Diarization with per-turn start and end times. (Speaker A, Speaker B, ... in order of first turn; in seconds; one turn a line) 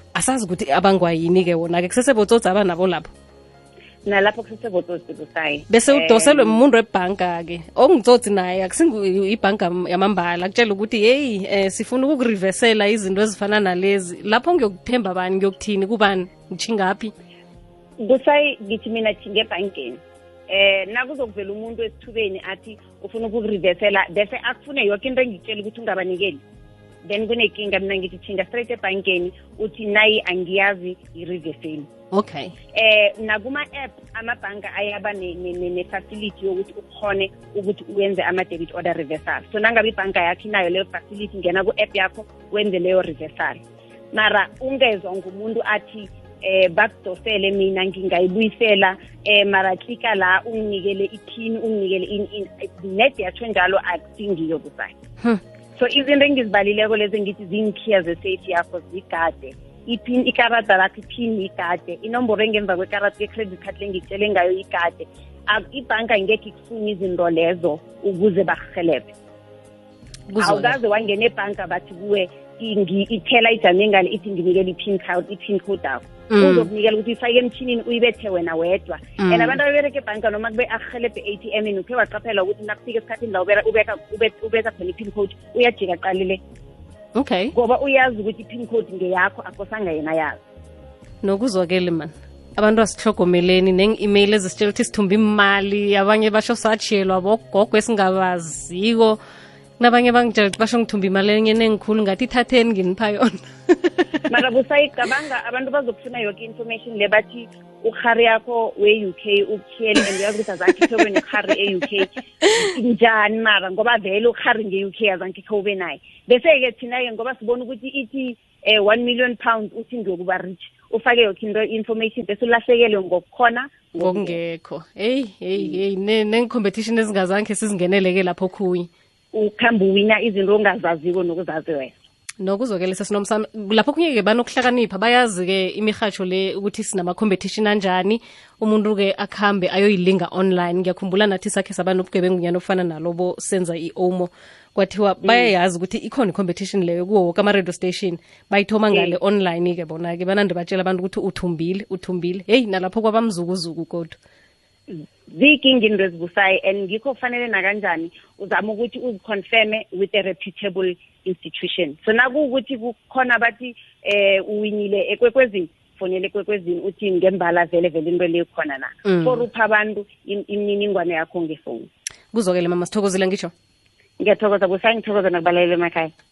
Speaker A: 0.1-3.1
Speaker B: 4.0-6.6
Speaker A: 5.7-17.1
Speaker B: 18.0-26.4
Speaker B: 27.1-31.9
Speaker A: 32.1-32.5
Speaker B: 32.7-55.0
Speaker B: 55.8-69.1
Speaker A: 70.3-70.8
Speaker B: 70.4-86.4
Speaker A: 76.3-76.7
Speaker A: 79.2-79.6
Speaker A: 87.2-87.5
Speaker B: 87.5-90.4
Speaker A: 91.2-99.2
Speaker A: 99.8-103.9
Speaker B: 104.3-124.4
Speaker A: 124.0-128.9
Speaker B: 125.6-125.8
Speaker B: 129.3-131.9
Speaker A: 132.4-154.2
Speaker B: 145.2-145.5
Speaker B: 148.9-149.2
Speaker B: 154.9-171.9
Speaker A: 169.1-169.4
Speaker A: 172.3-173.5
Speaker B: 174.2-176.1